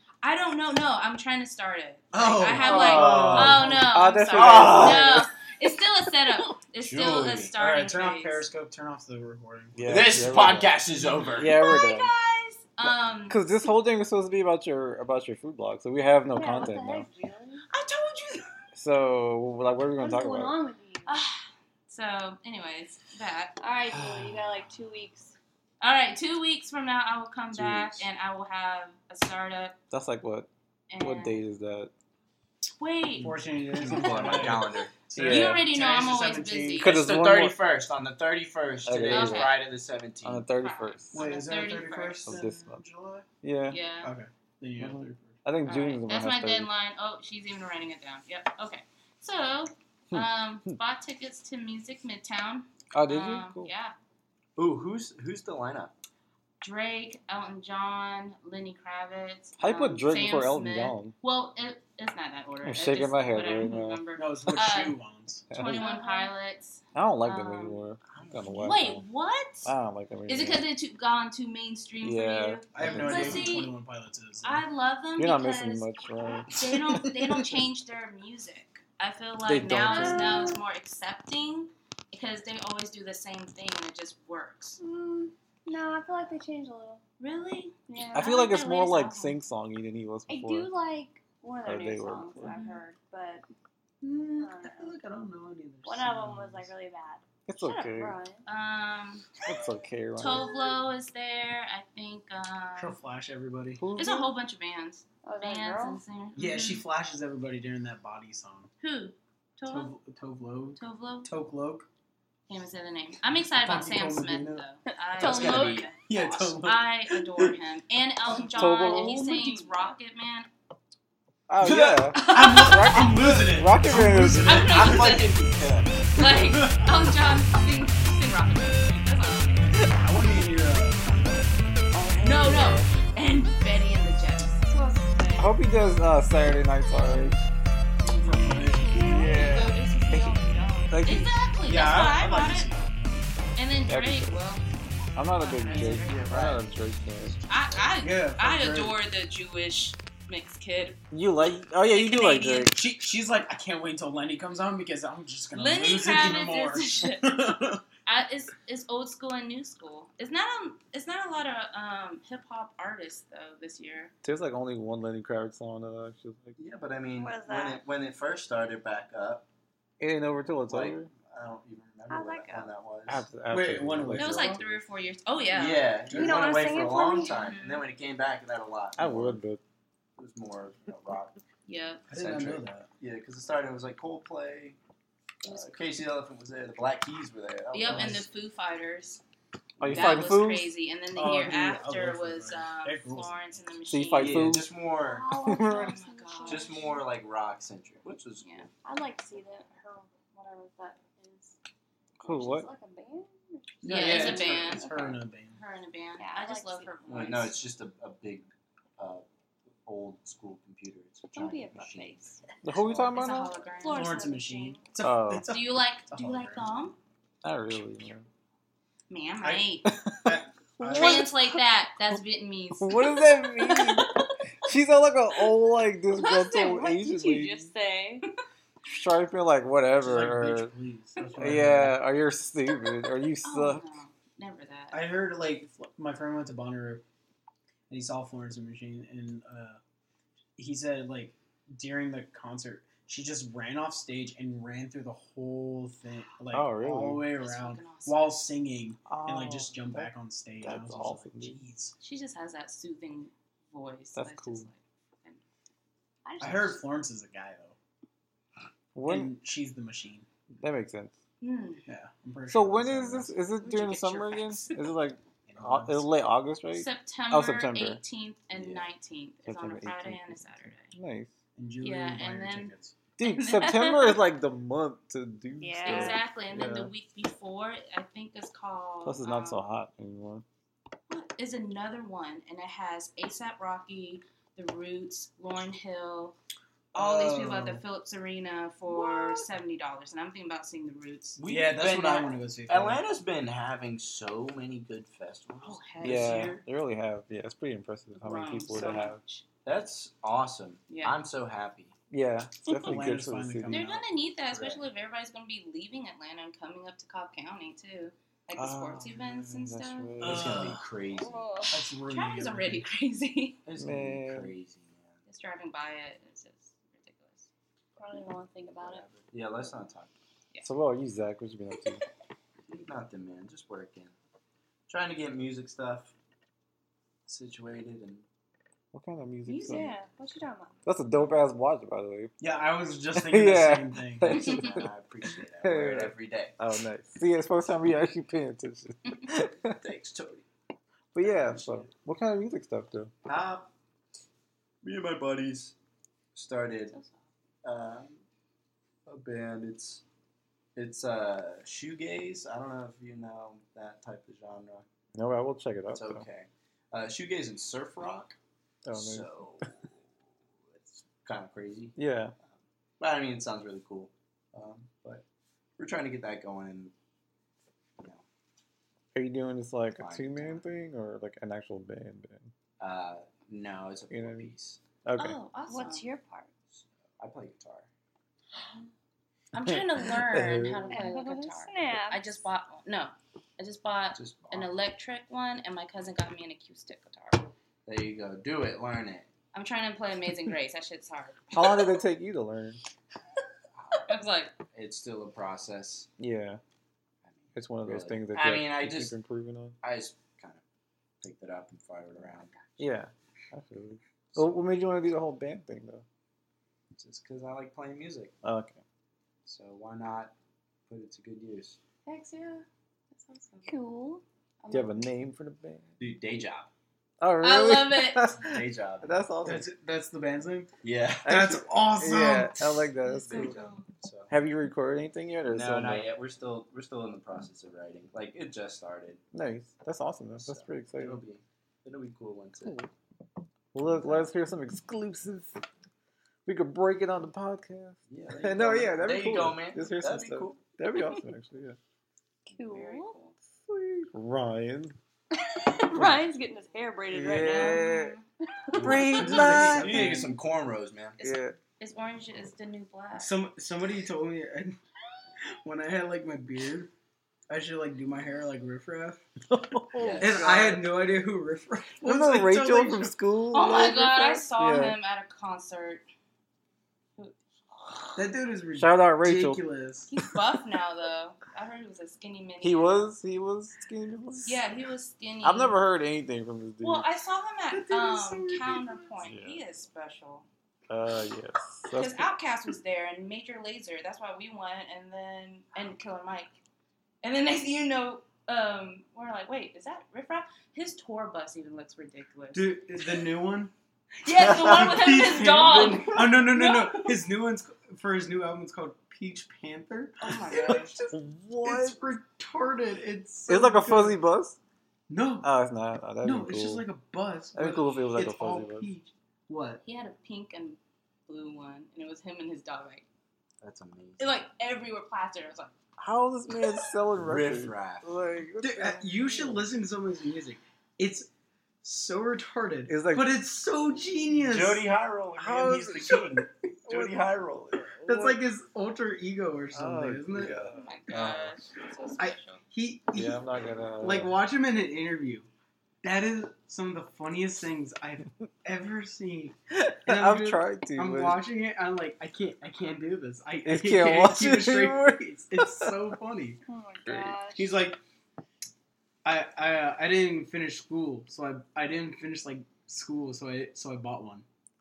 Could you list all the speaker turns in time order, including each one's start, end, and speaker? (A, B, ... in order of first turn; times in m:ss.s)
0:00.2-0:08.4 A
0:02.1-0:03.9 B
0:02.5-0:03.7 C
0:02.9-0:05.3 D
0:04.3-0:05.2 C
0:06.8-0:07.5 C
0:07.6-0:10.2 B
0:09.7-0:10.8 D
0:09.8-0:11.6 C
0:11.3-0:12.1 D
0:11.4-0:13.4 A
0:13.3-0:17.1 D
0:16.3-0:17.6 E
0:17.7-0:18.5 A
0:18.7-0:20.6 D
0:20.0-0:21.2 E
0:21.0-0:23.6 A
0:23.6-0:25.3 E
0:25.8-0:29.8 A
0:27.5-0:27.9 C
0:27.6-0:28.0 D
0:29.9-0:30.5 D
0:30.9-0:31.4 A
0:31.0-0:31.9 D
0:32.7-0:34.3 A
0:33.2-0:36.8 B
0:33.7-0:34.9 C
0:33.9-0:34.5 D
0:35.1-0:36.9 A
0:35.1-0:35.7 D
0:36.8-0:37.6 D
0:36.8-0:40.4 C
0:38.8-0:39.6 D
0:39.1-0:39.6 A
0:40.2-0:41.2 D
0:40.6-0:42.4 A
0:41.1-0:43.2 B
0:42.2-0:42.8 D
0:43.4-0:43.8 D
0:43.7-0:44.1 A
0:44.0-0:45.4 B
0:44.8-0:46.7 D
0:45.6-0:53.9 A
0:50.1-0:50.8 D
0:52.9-0:53.7 D
0:54.6-0:55.9 C
0:56.6-1:05.0 A
0:59.6-1:01.1 D
1:02.6-1:04.0 D
1:04.2-1:05.5 B
1:05.5-1:05.9 D
1:05.5-1:07.8 A
1:05.6-1:06.3 E
1:06.9-1:09.0 D
1:08.1-1:08.8 C
1:08.6-1:09.7 A
1:09.6-1:10.6 D
1:10.3-1:13.7 A
1:12.0-1:13.6 D
1:12.7-1:14.6 B
1:14.4-1:15.9 A
1:15.2-1:17.4 D
1:16.5-1:24.8 A
1:19.4-1:20.5 D
1:19.8-1:20.6 E
1:24.8-1:27.0 E
1:27.2-1:29.4 A
1:27.9-1:28.5 E
1:28.1-1:30.7 D
1:30.3-1:33.5 E
1:31.6-1:32.5 D
1:32.4-1:32.7 B
1:34.0-1:36.7 B
1:34.4-1:34.9 E
1:35.8-1:37.2 E
1:37.5-1:38.2 D
1:37.6-1:37.9 A
1:37.8-1:38.4 E
1:38.4-1:39.3 A
1:39.4-1:40.5 D
1:40.2-1:43.0 A
1:42.8-1:43.8 B
1:43.8-1:44.3 D
1:44.0-1:46.8 A
1:45.2-1:46.0 E
1:46.4-1:48.7 B
1:48.8-1:50.0 A
1:49.7-1:51.9 B
1:50.8-1:51.3 A
1:52.5-2:00.5 A
1:53.6-1:54.6 B
1:55.1-1:55.9 E
1:55.2-1:55.9 C
1:56.0-1:57.5 B
1:58.4-1:59.9 E
1:58.5-1:59.2 D
2:01.5-2:05.0 D
2:01.6-2:05.3 B
2:02.1-2:03.1 A
2:04.4-2:05.4 A
2:04.6-2:06.0 C
2:06.2-2:09.8 A
2:06.2-2:06.9 B
2:10.0-2:11.4 B
2:11.9-2:12.9 D
2:12.2-2:14.7 A
2:14.7-2:15.5 E
2:15.4-2:17.4 D
2:17.0-2:17.3 E
2:18.1-2:19.8 E
2:18.2-2:19.1 B
2:19.0-2:20.4 D
2:19.1-2:22.7 A
2:20.9-2:21.4 D
2:21.6-2:22.8 B
2:23.6-2:24.6 A
2:23.9-2:24.4 D
2:25.2-2:27.3 D
2:25.3-2:26.6 A
2:25.7-2:27.9 C
2:27.5-2:31.0 A
2:28.0-2:29.0 B
2:31.1-2:32.8 D
2:31.9-2:32.7 A
2:32.7-2:37.8 B
2:35.5-2:37.4 A
2:38.0-2:44.1 A
2:44.2-2:46.6 D
2:46.6-2:49.4 C
2:47.1-2:47.8 E
2:50.0-2:51.1 D
2:50.7-2:53.2 C
2:52.1-2:52.7 E
2:53.1-2:54.8 D
2:53.5-2:54.6 B
2:54.1-2:55.9 A
2:55.5-2:59.4 C
2:56.1-2:56.8 B
2:56.1-2:57.6 E
2:57.3-2:57.8 A
2:59.0-2:59.6 D
3:00.2-3:01.4 C
3:01.6-3:02.0 A
3:02.1-3:02.9 B
3:02.1-3:04.8 C
3:05.4-3:08.2 C
3:05.4-3:05.8 A
3:07.7-3:09.2 A
3:09.8-3:10.1 C
3:09.8-3:10.7 D
3:09.9-3:14.6 A
3:11.1-3:13.3 B
3:13.9-3:14.6 D
3:14.2-3:15.3 C
3:15.0-3:17.0 E
3:15.4-3:15.9 D
3:15.6-3:17.0 A
3:16.4-3:18.7 C
3:18.4-3:18.7 A
3:18.8-3:21.6 E
3:22.2-3:25.2 E
3:22.2-3:22.7 D
3:23.8-3:25.6 B
3:23.8-3:24.9 A
3:23.9-3:24.8 C
3:25.5-3:27.6 A
3:26.2-3:26.9 E
3:27.1-3:29.2 C
3:29.8-3:33.2 C
3:31.3-3:32.4 E
3:32.6-3:33.5 D
3:33.1-3:34.2 A
3:33.2-3:34.8 E
3:33.9-3:36.7 B
3:35.0-3:35.5 D
3:35.5-3:37.0 A
3:37.4-3:38.2 D
3:39.1-3:39.9 A
3:39.4-3:39.7 B
3:39.8-3:41.6 D
3:40.2-3:41.3 B
3:40.9-3:44.0 A
3:42.8-3:44.1 D
3:44.6-3:47.7 D
3:46.1-3:48.2 E
3:48.8-3:50.7 D
3:50.0-3:52.0 B
3:51.4-3:53.8 D
3:53.4-3:55.1 A
3:54.9-3:57.0 B
3:57.9-3:59.8 B
4:00.6-4:11.9 B
4:06.5-4:07.2 D
4:07.4-4:08.3 A
4:09.1-4:11.6 D
4:12.0-4:15.4 A
4:14.1-4:14.7 D
4:16.2-4:16.8 E
4:16.4-4:17.8 B
4:18.9-4:19.3 D
4:19.0-4:20.2 B
4:20.6-4:21.1 D
4:21.4-4:21.8 A
4:21.8-4:23.4 B
4:22.5-4:28.0 D
4:23.6-4:24.9 A
4:25.5-4:26.1 B
4:26.7-4:30.9 A
4:28.5-4:28.9 C
4:29.4-4:31.3 D
4:31.6-4:32.9 B
4:31.8-4:34.2 A
4:33.2-4:36.9 D
4:35.6-4:36.2 E
4:35.8-4:39.6 A
4:39.0-4:40.4 D
4:41.1-4:46.4 A
4:46.9-4:51.4 A
4:46.9-4:47.8 B
4:51.4-4:56.6 C
4:51.5-4:53.0 B
4:55.6-4:56.4 A
4:56.0-4:59.2 D
4:58.1-4:59.4 A
4:58.7-4:59.1 C
4:59.6-5:01.9 C
5:00.9-5:01.1 A
5:02.1-5:03.8 D
5:02.7-5:04.0 B
5:03.7-5:10.3 A
5:04.5-5:04.8 C
5:08.5-5:10.8 D
5:10.2-5:11.4 C
5:10.4-5:10.8 B
5:11.1-5:11.8 E
5:11.7-5:12.9 B
5:12.1-5:13.6 A
5:13.6-5:15.2 C
5:13.8-5:14.5 D
5:15.2-5:17.5 A
5:18.0-5:19.0 E
5:18.8-5:20.1 C
5:20.6-5:22.0 D
5:22.7-5:24.1 C
5:24.9-5:26.1 C
5:27.2-5:28.2 C
5:28.9-5:29.9 D
5:29.5-5:30.0 A
5:29.6-5:30.8 E
5:30.8-5:32.3 D
5:32.4-5:34.7 B
5:33.1-5:34.9 D
5:34.3-5:36.5 C
5:35.6-5:39.8 D
5:39.6-5:40.4 C
5:41.1-5:43.1 D
5:41.2-5:41.9 C
5:43.2-5:43.6 C
5:44.8-5:45.7 C
5:46.3-5:46.9 C
5:46.9-5:47.2 A
5:47.6-5:48.2 C
5:49.0-5:50.0 C
5:50.7-5:54.8 C
5:55.1-5:56.2 D
5:55.9-5:58.4 C
5:58.8-5:59.6 D
5:58.9-5:59.9 C
6:00.7-6:01.9 C
6:02.0-6:02.3 D
6:03.0-6:05.2 C
6:05.8-6:06.9 C
6:08.0-6:08.2 C
6:09.1-6:12.5 D
6:10.0-6:10.6 C
6:12.8-6:14.8 C
6:14.1-6:14.5 D
6:15.0-6:15.4 D
6:15.2-6:16.1 A
6:15.7-6:16.5 E
6:16.7-6:17.9 C
6:18.5-6:18.8 E
6:19.5-6:27.5 A
6:19.7-6:20.9 D
6:20.9-6:22.4 E
6:24.1-6:24.7 C
6:27.8-6:29.3 C
6:29.5-6:31.6 A
6:31.5-6:32.8 D
6:33.8-6:34.2 C
6:34.1-6:34.6 A
6:34.7-6:36.1 C
6:36.2-6:36.6 D
6:37.2-6:39.1 C
6:37.5-6:39.8 D
6:39.8-6:40.6 C
6:41.2-6:42.8 C
6:42.8-6:46.0 D
6:46.9-6:48.3 C
6:48.4-6:48.8 D
6:49.4-6:50.3 C
6:50.9-6:51.8 C
6:52.0-6:53.7 A
6:53.7-6:54.2 E
6:54.6-6:55.0 A
6:54.7-6:55.9 D
6:56.0-6:56.7 C
6:57.2-6:59.7 D
6:57.4-6:58.3 A
6:58.4-6:59.2 C
6:59.4-7:00.7 B
7:00.8-7:01.4 C
7:01.2-7:03.6 D
7:01.2-7:02.9 B
7:03.0-7:03.8 A
7:03.3-7:04.3 C
7:04.3-7:06.1 D
7:05.5-7:09.2 C
7:09.3-7:11.2 D
7:10.4-7:12.8 C
7:12.6-7:12.9 D
7:13.7-7:15.5 D
7:16.4-7:21.8 D
7:18.1-7:20.6 C
7:22.4-7:23.2 E
7:22.5-7:23.3 A
7:23.7-7:25.0 D
7:25.3-7:27.9 E
7:25.9-7:26.2 D
7:27.1-7:28.1 D
7:27.4-7:28.2 A
7:28.6-7:29.3 E
7:28.7-7:31.2 C
7:28.7-7:30.3 D
7:28.9-7:30.3 B
7:31.2-7:31.6 D
7:31.2-7:33.4 A
7:33.2-7:34.8 B
7:35.6-7:36.9 B
7:37.5-7:39.2 B
7:39.5-7:40.9 D
7:40.0-7:40.4 C
7:40.2-7:43.1 B
7:42.0-7:45.0 D
7:43.5-7:46.0 A
7:47.8-7:48.2 D
7:48.2-7:50.1 B
7:48.8-7:49.6 D
7:50.1-7:53.1 A
7:52.6-7:54.6 D
7:54.4-7:55.8 A
7:55.4-7:57.1 D
7:56.8-8:00.5 A
7:57.7-7:59.1 B
7:59.2-7:59.6 D
8:00.9-8:02.3 D
8:01.9-8:06.5 A
8:07.2-8:12.7 A
8:12.5-8:13.7 B
8:14.2-8:17.1 A
8:14.3-8:20.3 B
8:15.4-8:16.6 C
8:20.2-8:21.1 A
8:20.5-8:22.1 D
8:21.6-8:24.2 B
8:23.5-8:24.6 D
8:25.1-8:25.5 B
8:25.4-8:26.8 D
8:26.2-8:29.8 B
8:27.5-8:28.8 D
8:29.8-8:33.0 A
8:33.6-8:34.4 C
8:34.2-8:35.7 A
8:36.0-8:39.6 D
8:37.2-8:38.1 C
8:38.6-8:41.3 B
8:41.8-8:44.9 B
8:42.9-8:43.4 D
8:44.3-8:47.9 C
8:45.4-8:46.3 D
8:46.9-8:47.2 D
8:47.8-8:48.4 D
8:48.0-8:50.6 B
8:49.7-8:51.6 D
8:50.6-8:52.6 A
8:52.2-8:53.4 B
8:53.1-8:54.3 D
8:54.0-8:55.5 B
8:56.0-9:06.6 B
8:59.7-9:01.4 D
9:03.6-9:06.0 D
9:06.6-9:07.7 E
9:07.1-9:07.3 D
9:07.5-9:08.0 B
9:09.2-9:14.4 B